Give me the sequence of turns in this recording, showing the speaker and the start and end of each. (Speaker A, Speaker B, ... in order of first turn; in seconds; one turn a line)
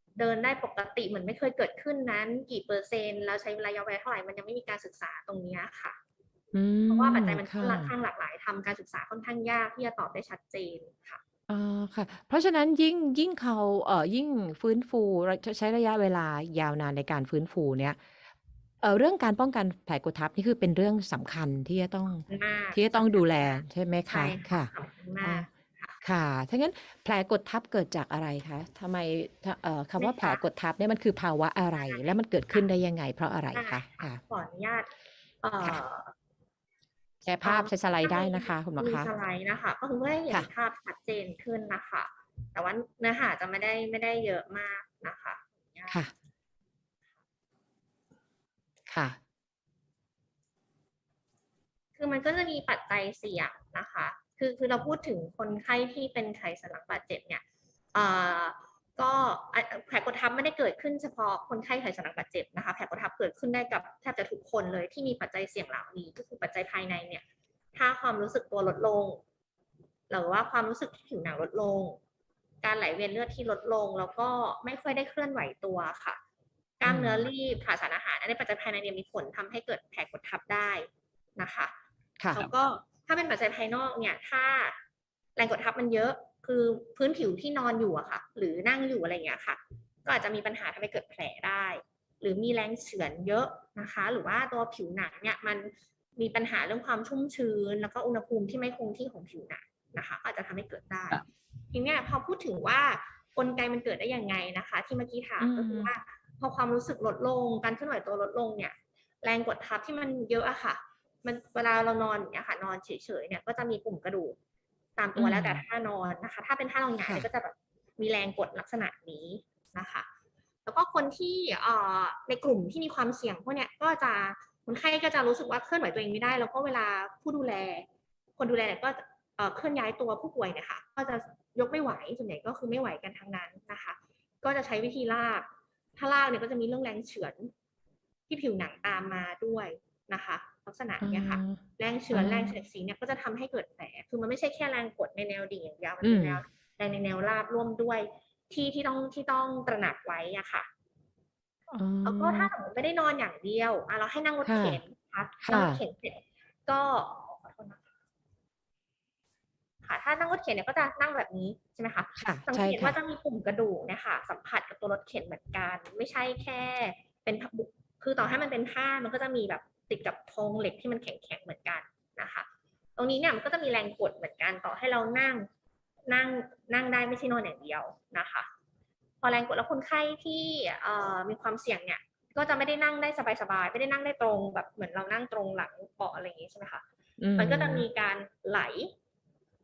Speaker A: 0.2-6.0
Speaker B: 6.5-7.9
Speaker A: 6.9-11.2
Speaker B: 11.5-18.0
Speaker B: 18.8-24.7
Speaker A: 22.3-26.0
Speaker B: 25.2-25.5
Speaker B: 26.0-34.2
Speaker A: 30.0-30.4
Speaker A: 31.8-32.6
Speaker A: 33.5-34.9
Speaker A: 35.4-36.1
Speaker B: 37.2-39.1
Speaker A: 37.4-46.0
Speaker B: 48.9-49.2
Speaker A: 52.0-57.4
Speaker A: 57.9-67.2
Speaker A: 67.8-69.2
Speaker A: 70.1-72.0
Speaker A: 72.6-76.2
Speaker A: 76.8-81.7
Speaker B: 76.8-77.3
Speaker A: 82.3-84.8
Speaker A: 85.4-101.2
Speaker A: 101.7-114.3
Speaker B: 105.4-105.9
Speaker A: 115.0-120.0
Speaker B: 115.2-115.6
Speaker B: 117.0-117.3
Speaker A: 120.7-127.8
Speaker A: 128.4-135.4
Speaker A: 136.0-137.5
Speaker A: 138.3-150.7
Speaker B: 141.0-142.6
Speaker B: 146.0-146.4
Speaker B: 151.7-152.5
Speaker A: 152.0-157.8
Speaker B: 154.4-154.8
Speaker B: 155.4-155.8
Speaker A: 159.8-172.4
Speaker B: 162.2-162.9
Speaker A: 173.0-175.5
Speaker A: 176.1-178.5
Speaker A: 179.2-186.8
Speaker B: 187.2-187.9
Speaker A: 187.4-188.9